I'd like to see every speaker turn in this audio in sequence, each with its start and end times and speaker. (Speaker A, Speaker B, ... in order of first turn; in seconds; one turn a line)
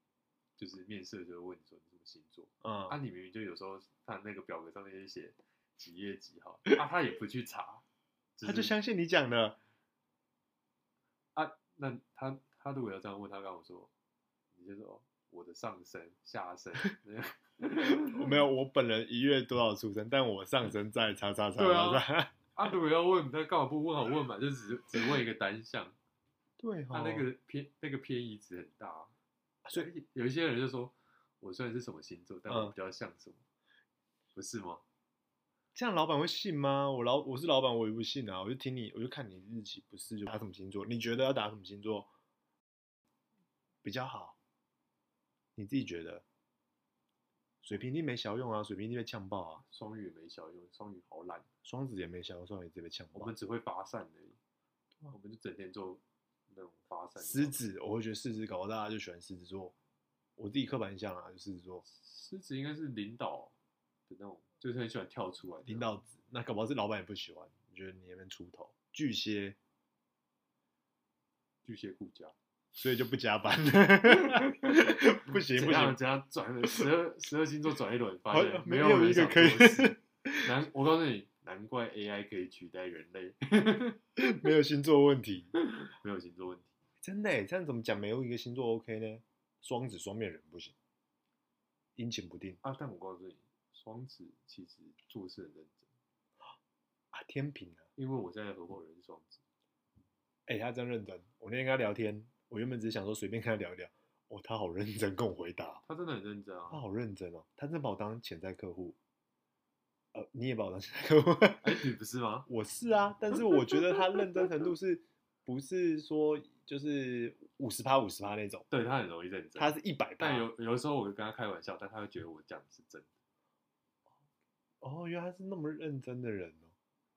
Speaker A: 0.6-7.8
Speaker B: 2.6-3.0
Speaker A: 8.4-8.8
Speaker B: 8.4-9.6
Speaker A: 11.3-13.9
Speaker A: 14.5-18.4
Speaker B: 17.9-22.3
Speaker A: 21.6-26.0
Speaker B: 26.6-27.2
Speaker A: 26.9-29.1
Speaker A: 29.7-33.4
Speaker B: 32.5-32.7
Speaker A: 34.4-34.8
Speaker B: 35.8-42.1
Speaker B: 43.8-44.4
Speaker B: 45.6-46.2
Speaker B: 47.6-49.6
Speaker A: 49.7-51.5
Speaker B: 51.6-53.3
Speaker A: 53.1-54.4
Speaker A: 55.1-57.6
Speaker B: 57.2-59.7
Speaker B: 60.4-61.9
Speaker A: 61.9-63.5
Speaker A: 64.1-65.9
Speaker B: 65.6-69.6
Speaker A: 71.6-72.3
Speaker B: 72.8-76.0
Speaker A: 74.1-74.8
Speaker A: 75.5-84.0
Speaker B: 78.3-80.5
Speaker B: 84.2-85.5
Speaker A: 85.6-86.7
Speaker B: 87.0-90.8
Speaker B: 92.0-92.6
Speaker A: 92.6-95.9
Speaker B: 97.1-97.9
Speaker A: 98.0-99.4
Speaker B: 100.5-105.8
Speaker A: 105.8-106.8
Speaker B: 106.7-109.0
Speaker B: 110.1-111.8
Speaker A: 111.6-112.5
Speaker B: 112.5-118.6
Speaker A: 118.7-123.1
Speaker B: 119.6-120.5
Speaker B: 124.8-126.7